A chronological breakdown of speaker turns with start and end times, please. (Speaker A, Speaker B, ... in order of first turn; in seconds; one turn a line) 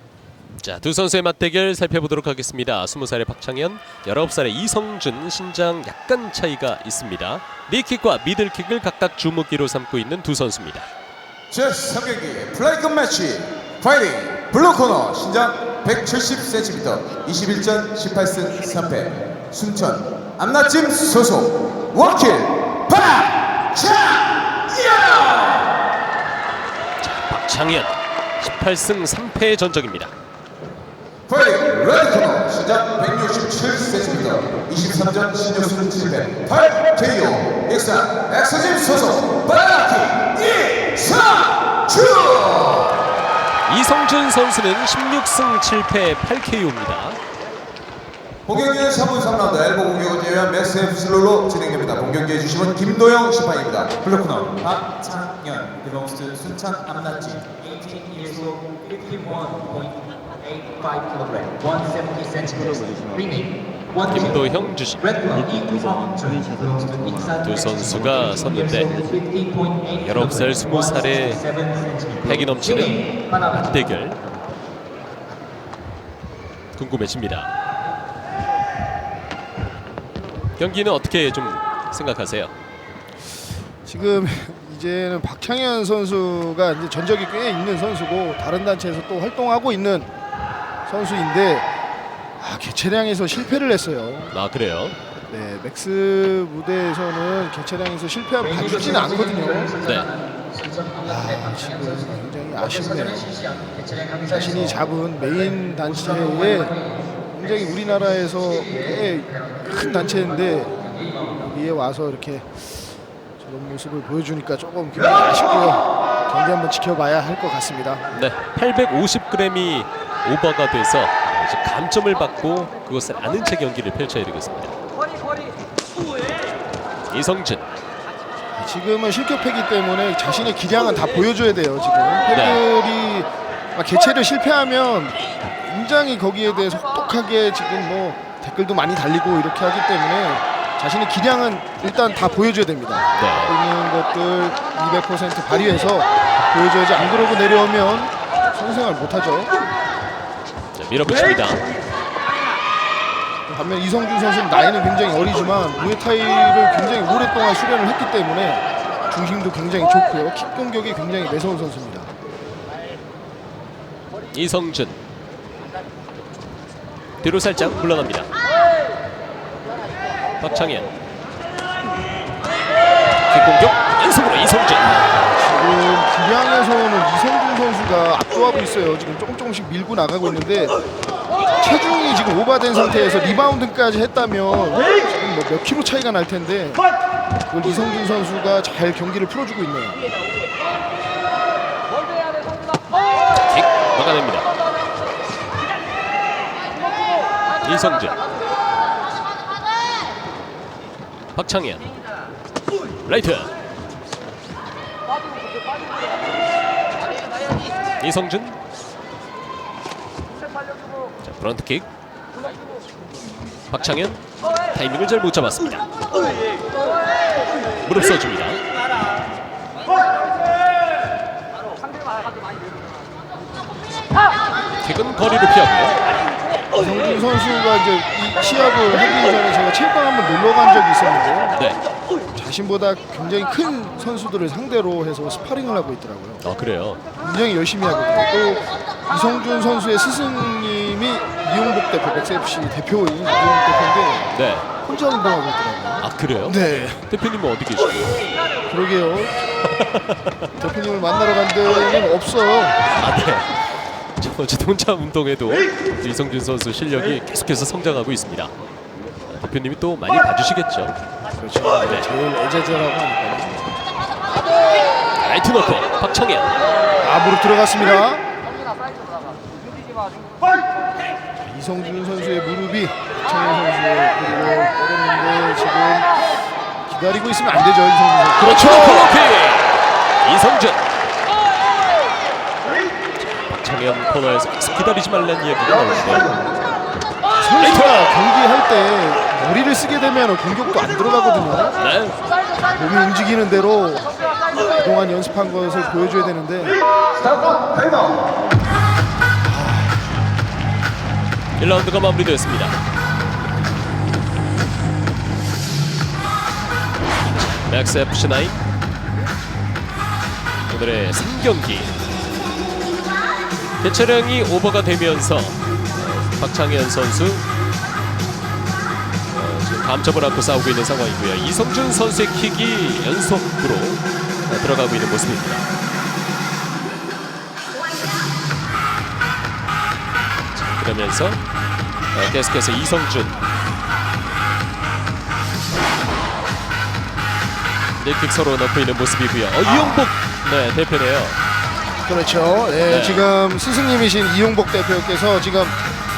Speaker A: 0.6-10.9
Speaker B: 11.5-24.3
Speaker A: 27.0-30.1
Speaker B: 31.3-43.0
Speaker A: 43.7-47.2
Speaker B: 48.5-54.4
Speaker C: 54.2-64.4
Speaker A: 64.1-65.6
Speaker C: 65.0-73.6
Speaker A: 67.4-69.0
Speaker A: 70.0-71.4
Speaker A: 72.2-74.2
Speaker A: 76.8-77.5
Speaker A: 80.6-82.5
Speaker D: 83.8-90.1
Speaker D: 90.9-91.7
Speaker D: 92.4-94.3
Speaker A: 94.3-95.0
Speaker D: 95.3-99.8
Speaker C: 98.6-101.9
Speaker D: 101.0-103.4
Speaker C: 103.0-104.7
Speaker D: 104.3-112.8
Speaker D: 113.4-118.1
Speaker A: 118.1-124.8
Speaker A: 127.1-127.7
Speaker D: 128.6-149.5
Speaker A: 132.3-132.6
Speaker A: 143.2-143.6
Speaker A: 150.8-151.6
Speaker D: 153.5-162.1
Speaker A: 164.3-165.0
Speaker A: 167.2-168.3
Speaker A: 170.4-170.9
Speaker A: 173.3-175.2
Speaker D: 175.2-180.8
Speaker D: 181.6-186.9
Speaker D: 187.5-190.0
Speaker A: 193.4-194.5
Speaker A: 197.6-198.2
Speaker A: 201.3-201.8
Speaker A: 203.1-203.5
Speaker A: 208.0-208.6
Speaker A: 211.2-211.9
Speaker A: 213.7-215.8
Speaker A: 217.8-218.6
Speaker A: 224.8-226.0
Speaker D: 226.8-231.6
Speaker A: 231.5-231.8
Speaker D: 232.3-236.4
Speaker A: 236.4-237.0
Speaker D: 237.2-244.3
Speaker A: 244.3-244.7
Speaker D: 244.8-247.1
Speaker A: 246.0-246.6
Speaker A: 247.1-248.2
Speaker D: 248.7-249.3
Speaker A: 249.6-250.4
Speaker D: 250.6-252.9
Speaker A: 253.0-253.5
Speaker A: 254.2-258.5
Speaker A: 259.3-260.9
Speaker D: 261.4-263.7
Speaker A: 265.2-266.5
Speaker D: 267.0-268.2
Speaker D: 271.4-276.1
Speaker D: 276.9-279.1
Speaker A: 278.4-280.9
Speaker A: 283.2-286.6
Speaker D: 287.4-291.8
Speaker A: 287.6-288.2
Speaker A: 291.8-292.2
Speaker D: 292.7-296.8
Speaker A: 301.6-302.8
Speaker A: 307.4-308.6
Speaker A: 310.7-311.9
Speaker A: 313.8-317.4
Speaker A: 319.3-325.7
Speaker A: 330.5-331.4
Speaker A: 332.1-333.4
Speaker A: 338.0-341.4
Speaker D: 342.1-345.8
Speaker A: 342.9-343.3